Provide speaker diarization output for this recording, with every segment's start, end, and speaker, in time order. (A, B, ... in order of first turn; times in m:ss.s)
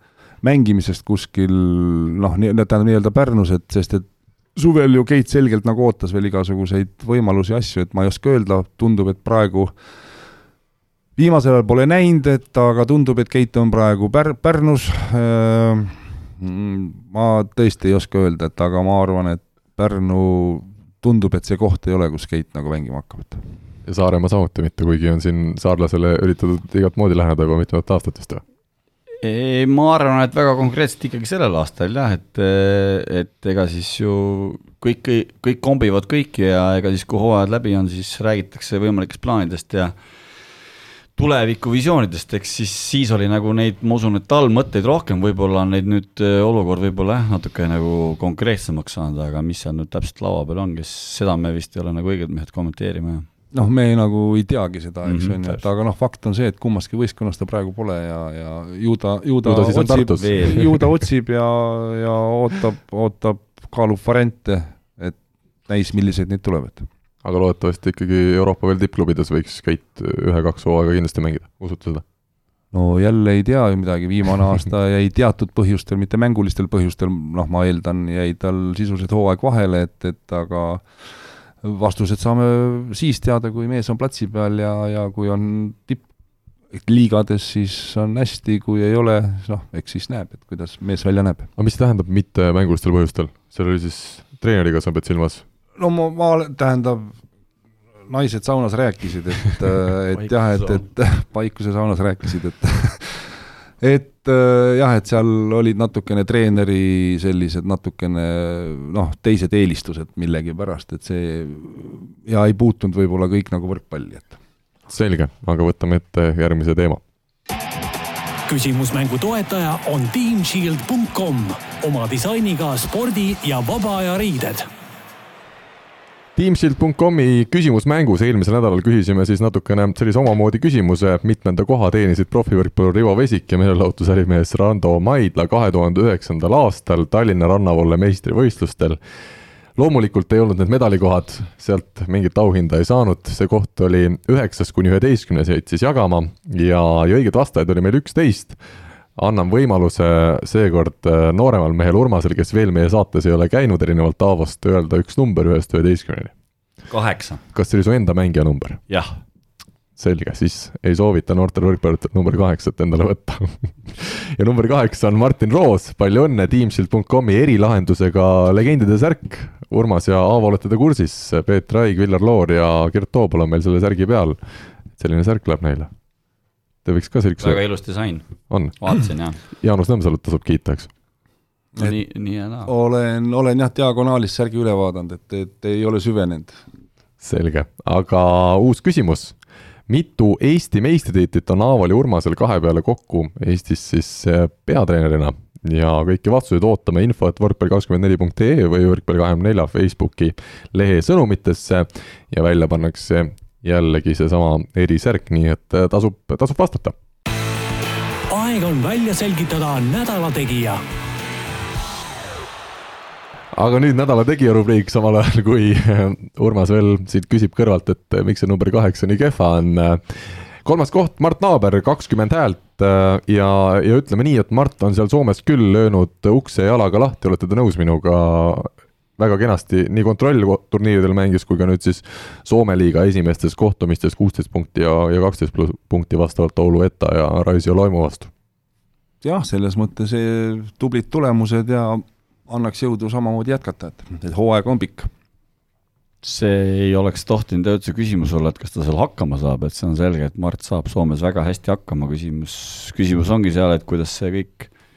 0:00.4-0:09.7 A
0:11.2-0:23.4 A
0:23.9-0:28.4 B
0:29.2-0:40.0 C
0:41.2-0:53.3 C
0:53.5-1:06.9 A
0:55.0-0:55.6 C
0:59.4-1:00.8 B
1:00.2-1:00.6 C
1:07.2-1:12.0 B
1:12.7-1:21.1 A
1:21.6-1:26.0 A
1:26.7-1:31.5 A
1:31.6-1:35.4 B
1:35.8-1:37.2 A
1:38.1-1:54.4 A
1:40.2-1:40.8 C
1:54.9-1:57.0 B
1:58.5-2:04.7 D
2:06.4-2:19.0 B
2:19.8-2:28.6 B
2:29.2-2:36.3 B
2:36.9-2:37.4 C
2:37.5-2:38.8 B
2:38.9-2:39.2 C
2:40.0-2:54.4 B
2:55.0-2:55.9 B
2:56.8-2:57.6 B
2:57.4-2:58.3 C
2:58.5-2:58.8 B
2:58.8-2:59.4 C
2:59.6-3:00.9 B
3:01.8-3:02.7 C
3:02.7-3:06.6 A
3:07.2-3:09.4 B
3:09.9-3:26.9 B
3:28.3-3:30.8 D
3:33.6-3:58.3 B
3:59.2-4:05.1 A
4:06.2-4:14.7 C